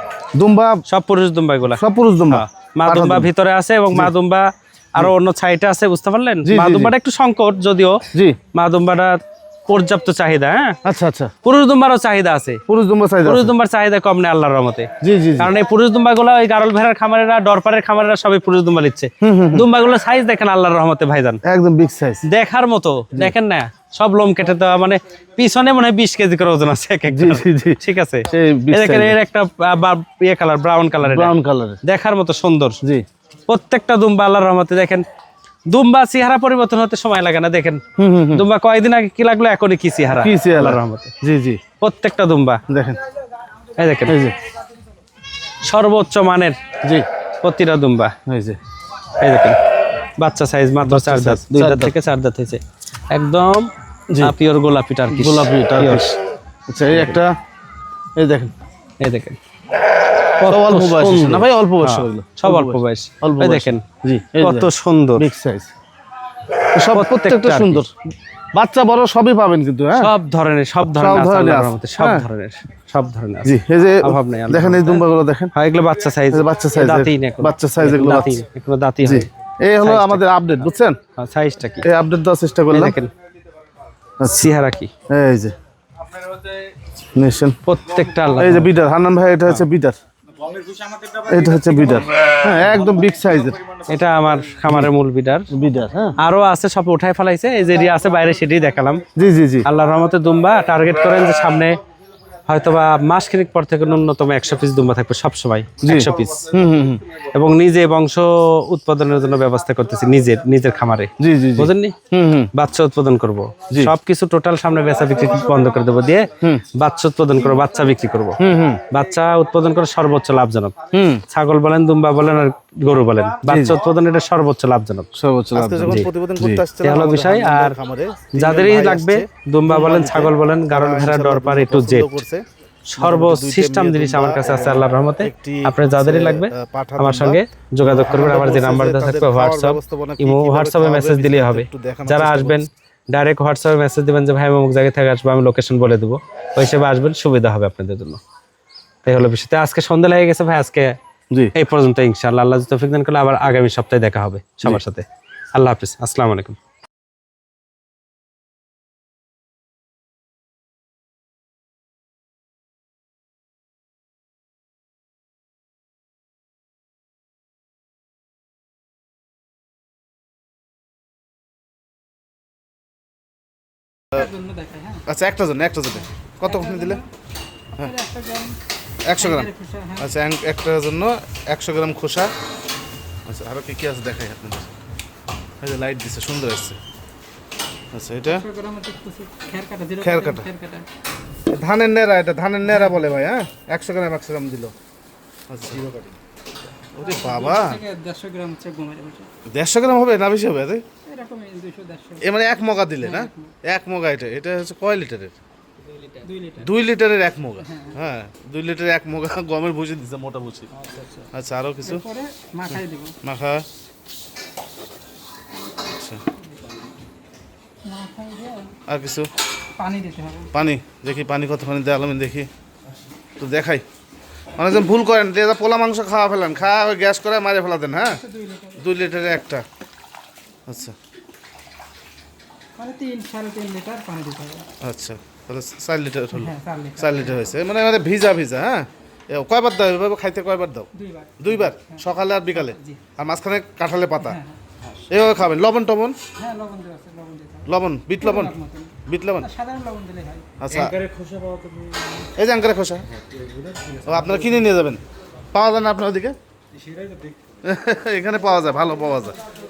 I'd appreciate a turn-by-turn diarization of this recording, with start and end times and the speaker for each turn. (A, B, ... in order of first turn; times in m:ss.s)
0:00.3-0:00.8 A
0:00.8-0:10.8 B
0:01.7-0:03.3 A
0:06.4-0:06.9 A
0:10.8-0:11.3 A
0:11.4-0:12.6 B
0:12.7-0:13.5 A
0:13.2-0:21.4 B
0:15.0-0:15.5 A
0:19.2-0:19.6 A
0:21.4-0:22.2 A
0:22.2-0:31.3 B
0:27.1-0:27.8 A
0:28.3-0:29.2 A
0:31.0-0:31.8 A
0:31.8-0:32.8 B
0:33.5-0:35.0 B
0:35.7-0:37.8 B
0:38.0-0:38.4 A
0:38.3-0:41.1 B
0:40.1-0:41.6 A
0:41.8-0:42.6 B
0:42.7-0:43.0 A
0:43.8-0:44.1 B
0:44.1-0:44.3 A
0:45.6-0:46.6 B
0:47.4-0:48.1 B
0:48.3-0:48.6 A
0:49.2-0:52.6 B
0:50.8-0:51.9 A
0:53.1-0:53.7 B
0:54.2-0:56.2 B
0:55.1-0:56.1 A
0:56.7-0:57.3 A
0:56.9-0:57.2 B
0:58.2-0:58.5 A
0:59.0-0:59.4 B
1:00.2-1:03.8 B
1:00.4-1:05.7 A
1:04.4-1:05.2 B
1:06.7-1:07.9 A
1:06.9-1:07.8 B
1:08.5-1:10.1 A
1:10.0-1:19.3 B
1:10.8-1:12.2 A
1:13.4-1:15.5 A
1:16.3-1:18.4 A
1:19.0-1:21.0 A
1:19.8-1:20.2 B
1:21.2-1:21.8 B
1:21.8-1:23.0 A
1:22.7-1:23.1 B
1:24.2-1:24.4 A
1:24.3-1:24.9 B
1:25.1-1:25.5 A
1:27.1-1:27.5 A
1:27.6-1:28.7 B
1:28.4-1:29.9 A
1:31.2-1:33.6 A
1:33.9-1:35.5 B
1:35.5-1:36.2 A
1:36.2-1:39.0 B
1:39.2-1:39.6 A
1:39.6-1:41.8 B
1:42.5-1:46.5 B
1:45.8-1:47.0 A
1:47.3-1:51.9 B
1:51.2-1:52.5 A
1:52.5-1:58.4 B
1:58.4-1:58.8 A
1:58.9-2:00.7 B
2:00.9-2:01.2 A
2:01.3-2:05.1 B
2:03.4-2:03.8 A
2:05.2-2:12.4 A
2:05.6-2:07.8 B
2:08.3-2:12.2 B
2:12.9-2:28.2 B
2:13.0-2:22.6 A
2:29.0-2:31.0 B
2:31.5-2:36.6 B
2:54.2-2:55.0 C
2:55.0-2:57.0 A
2:57.8-2:58.6 C
2:59.0-3:02.3 A
2:59.2-3:00.0 C
3:03.3-3:04.7 A
3:05.6-3:06.8 A
3:07.9-3:08.5 A
3:08.5-3:10.8 C
3:10.0-3:10.5 A
3:11.5-3:14.7 A
3:15.5-3:16.0 A
3:16.9-3:17.8 A
3:17.3-3:19.3 C
3:19.5-3:20.8 A
3:21.1-3:22.2 C
3:22.2-3:25.4 A
3:26.2-3:26.6 C
3:26.6-3:30.7 A
3:31.3-3:32.1 A
3:32.0-3:33.2 C
3:32.7-3:33.6 A
3:35.9-3:36.2 A
3:37.8-3:38.8 C
3:38.9-3:39.3 A
3:39.8-3:40.5 C
3:40.5-3:42.5 A
3:43.4-3:43.8 A
3:44.6-3:49.6 A
3:48.3-3:48.7 C
3:50.7-3:50.9 A
3:52.8-3:54.7 C
3:54.8-4:04.4 A
3:56.5-3:57.1 C
4:01.0-4:01.3 C
4:05.1-4:06.2 A
4:06.4-4:07.6 C
4:07.6-4:09.5 A
4:08.3-4:08.9 C
4:09.5-4:10.5 C
4:10.6-4:11.0 A
4:10.7-4:12.0 B
4:12.2-4:13.0 A
4:14.0-4:15.0 A
4:15.5-4:16.4 A
4:17.6-4:19.4 A